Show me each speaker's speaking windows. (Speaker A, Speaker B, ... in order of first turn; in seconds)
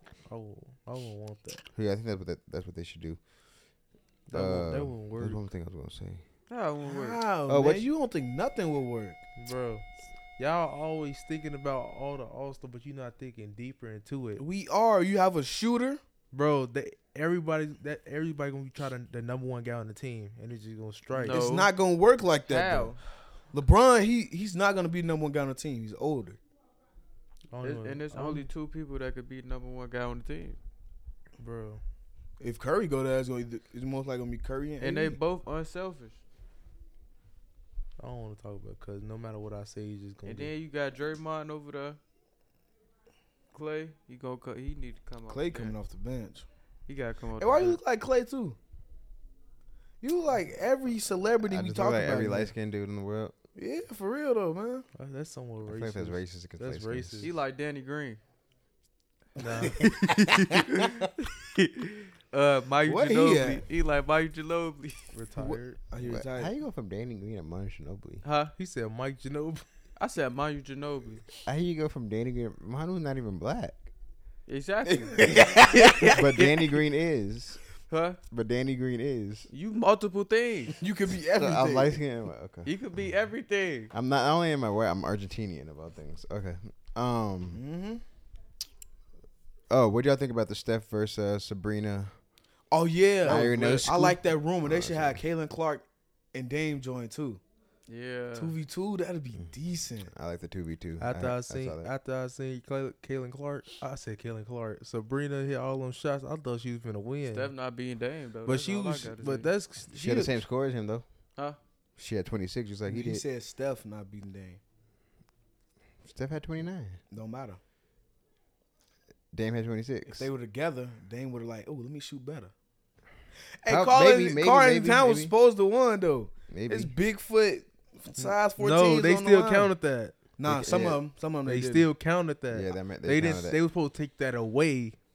Speaker A: 0.2-1.6, 4.3-5.4, 9.4-9.8, 10.4-14.4, 16.3-21.4, 27.5-28.5, 31.4-31.8, 38.0-40.5, 54.9-57.3, 59.4-60.8, 65.1-65.8, 68.6-69.6, 101.0-107.5, 108.5-110.4, 128.2-130.2, 131.4-135.0
Speaker B: 1.7-3.2, 4.3-6.2, 7.5-7.9, 51.4-53.3, 55.6-57.3, 66.0-68.2, 71.4-73.9, 76.1-77.6, 78.3-79.5, 81.3-82.7, 83.9-87.6, 89.7-92.1, 93.2-95.2, 100.0-101.9, 109.9-111.0, 112.0-113.2, 116.0-117.0, 119.3-120.3, 123.7-125.3, 126.5-126.9, 130.4-131.0, 132.5-133.6
Speaker C: 6.5-7.2, 21.1-21.7, 22.5-23.0, 27.6-30.6, 34.8-36.2, 40.2-42.0, 43.5-45.8, 46.9-47.8, 57.2-58.2, 60.9-65.1, 68.2-68.5, 70.0-71.3, 74.5-76.8, 77.9-78.2, 79.5-80.8, 82.6-83.9, 97.9-98.5, 107.3-109.5
Speaker D: 6.8-9.2, 14.4-16.0, 21.2-22.9, 23.5-26.4, 32.4-35.2, 45.3-46.5, 47.4-48.6, 50.0-52.5, 53.5-54.9, 59.6-60.0, 62.9-63.6, 65.4-66.5, 74.8-76.2, 80.8-82.0, 87.5-88.0, 92.7-97.4, 98.3-100.1, 112.8-114.6, 117.1-117.6, 120.1-122.5, 123.6-129.7, 130.4-131.9